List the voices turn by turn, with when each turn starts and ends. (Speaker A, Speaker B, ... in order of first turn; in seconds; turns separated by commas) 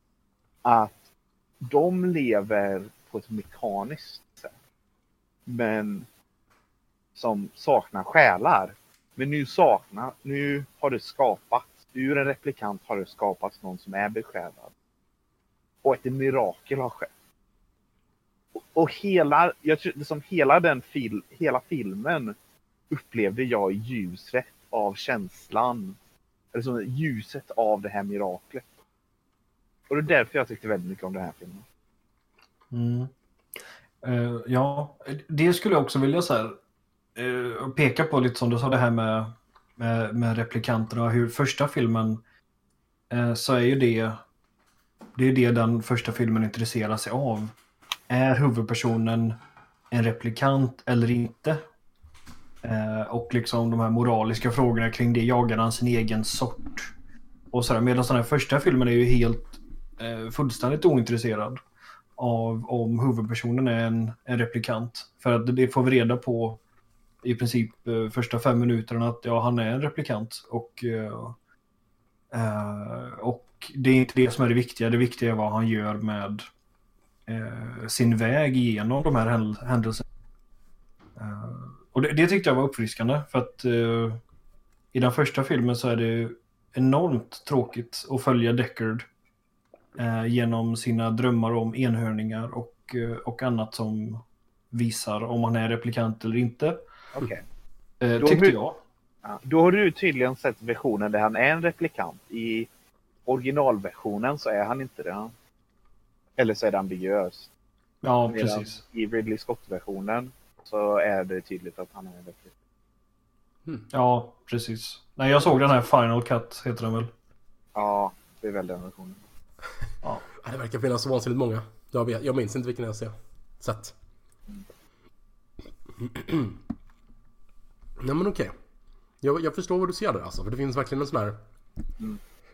Speaker A: 0.6-1.0, Speaker A: 1.6-4.5, Speaker A: 5.5-6.1, Speaker A: 7.2-14.7, Speaker A: 15.8-17.1, Speaker A: 18.6-22.4, Speaker A: 22.9-26.0, Speaker A: 26.5-28.6, Speaker A: 29.9-31.6, Speaker B: 32.7-33.1, Speaker B: 34.0-36.6, Speaker B: 37.2-42.2, Speaker B: 43.1-44.2, Speaker B: 45.2-47.5, Speaker B: 48.1-49.4, Speaker B: 49.9-51.6, Speaker B: 52.6-56.9, Speaker B: 57.5-61.6, Speaker B: 62.2-66.6, Speaker B: 67.2-71.4, Speaker B: 72.3-76.5, Speaker B: 77.3-80.0, Speaker B: 81.2-84.2, Speaker B: 84.9-89.1, Speaker B: 90.0-96.8, Speaker A: 97.1-97.4, Speaker B: 98.0-98.8, Speaker A: 98.2-98.5, Speaker A: 99.2-102.7, Speaker A: 103.3-105.3, Speaker A: 106.4-107.5, Speaker B: 108.0-108.8, Speaker A: 108.3-112.5, Speaker B: 113.9-117.1, Speaker A: 117.8-119.2, Speaker C: 120.4-124.0, Speaker C: 126.0-126.6, Speaker C: 128.0-128.5, Speaker C: 129.2-131.4